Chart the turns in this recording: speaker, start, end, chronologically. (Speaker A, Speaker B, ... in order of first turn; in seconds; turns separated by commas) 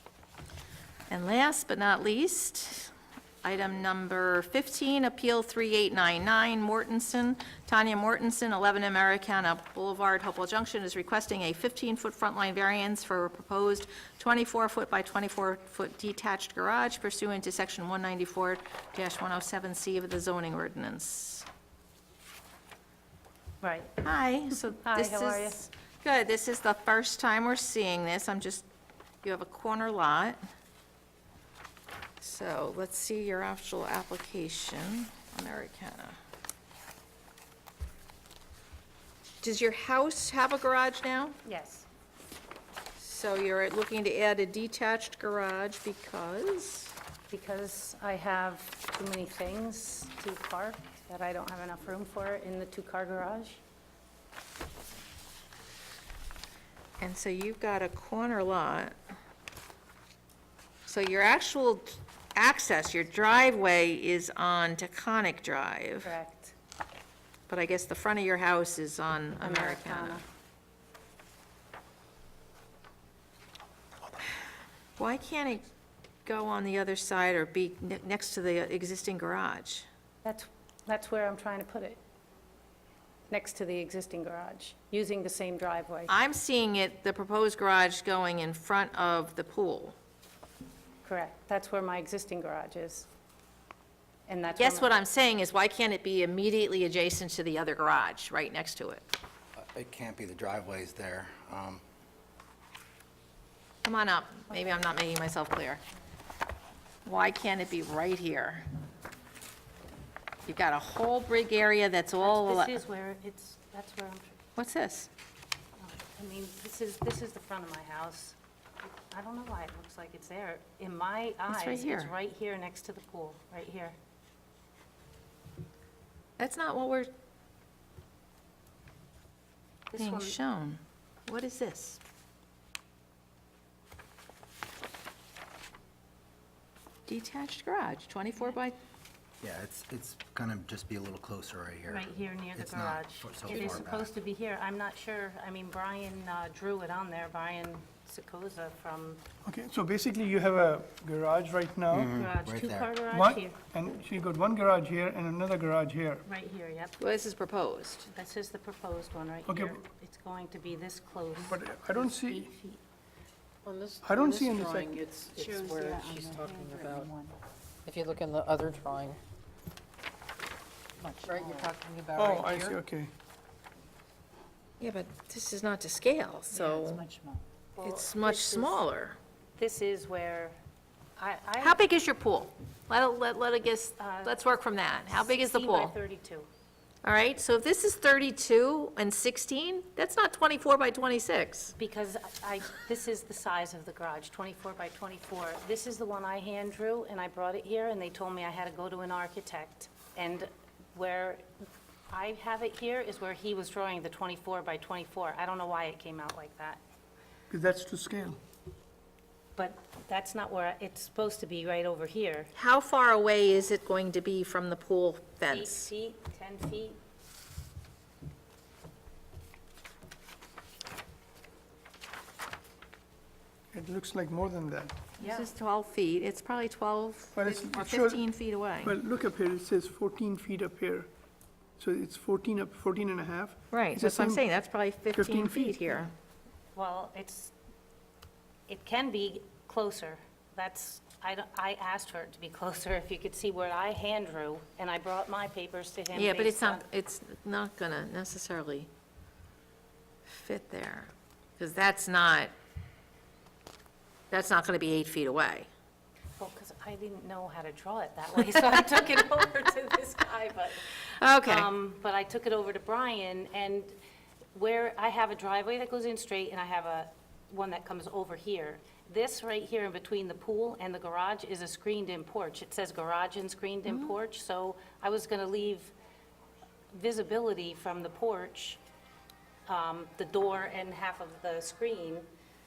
Speaker A: 1.1-21.4, Speaker B: 23.6-23.9, Speaker A: 24.0-28.7, Speaker B: 24.8-25.6, Speaker A: 29.2-30.4, Speaker A: 32.2-36.2, Speaker A: 39.4-41.4, Speaker B: 41.4-41.9, Speaker A: 43.0-46.9, Speaker B: 47.3-53.6, Speaker A: 57.0-58.9, Speaker A: 60.9-66.1, Speaker B: 66.0-66.5, Speaker A: 67.5-70.2, Speaker B: 69.4-70.2, Speaker A: 75.0-75.6, Speaker A: 76.2-79.9, Speaker B: 80.2-82.0, Speaker B: 83.3-86.1, Speaker A: 86.1-90.0, Speaker B: 91.0-93.1, Speaker B: 94.3-94.9, Speaker A: 94.6-99.0, Speaker C: 99.5-101.8, Speaker A: 103.8-105.8, Speaker A: 107.0-108.6, Speaker A: 110.5-112.7, Speaker B: 112.2-114.4, Speaker A: 114.5-115.1, Speaker B: 115.8-124.0, Speaker A: 121.5-122.1, Speaker A: 126.4-127.1, Speaker B: 129.9-130.3, Speaker A: 130.0-132.0, Speaker A: 137.1-138.8, Speaker C: 139.4-144.1, Speaker B: 141.9-149.2, Speaker D: 149.4-152.1, Speaker C: 151.9-152.9, Speaker B: 152.1-153.6, Speaker D: 153.1-156.2, Speaker B: 156.2-157.0, Speaker A: 157.0-158.1, Speaker B: 158.1-162.8, Speaker D: 159.5-159.8, Speaker D: 161.5-162.5, Speaker E: 163.6-167.1, Speaker D: 164.0-165.0, Speaker B: 165.3-167.2, Speaker E: 167.8-169.2, Speaker B: 171.0-171.7, Speaker E: 171.2-172.8, Speaker D: 172.2-173.1, Speaker A: 174.8-177.0, Speaker B: 176.5-178.8, Speaker A: 177.8-179.2, Speaker B: 179.6-180.6, Speaker B: 181.2-181.8, Speaker A: 181.6-185.9, Speaker B: 184.0-184.4, Speaker B: 185.1-186.5, Speaker A: 187.0-191.7, Speaker B: 191.7-201.4, Speaker B: 202.1-206.8, Speaker D: 207.5-208.4, Speaker B: 209.6-212.5, Speaker A: 212.5-215.9, Speaker B: 215.5-217.0, Speaker D: 223.7-224.9, Speaker A: 225.2-228.9, Speaker B: 225.2-225.5, Speaker D: 227.3-228.3, Speaker D: 228.8-231.1, Speaker D: 231.8-234.4, Speaker A: 233.7-236.1, Speaker D: 235.1-236.1, Speaker B: 236.7-237.5, Speaker B: 238.7-246.8, Speaker A: 246.1-248.9, Speaker A: 250.3-252.5, Speaker A: 254.3-255.7, Speaker B: 256.4-264.0, Speaker A: 261.2-261.7, Speaker B: 264.5-275.9, Speaker B: 276.9-278.8, Speaker B: 279.7-282.3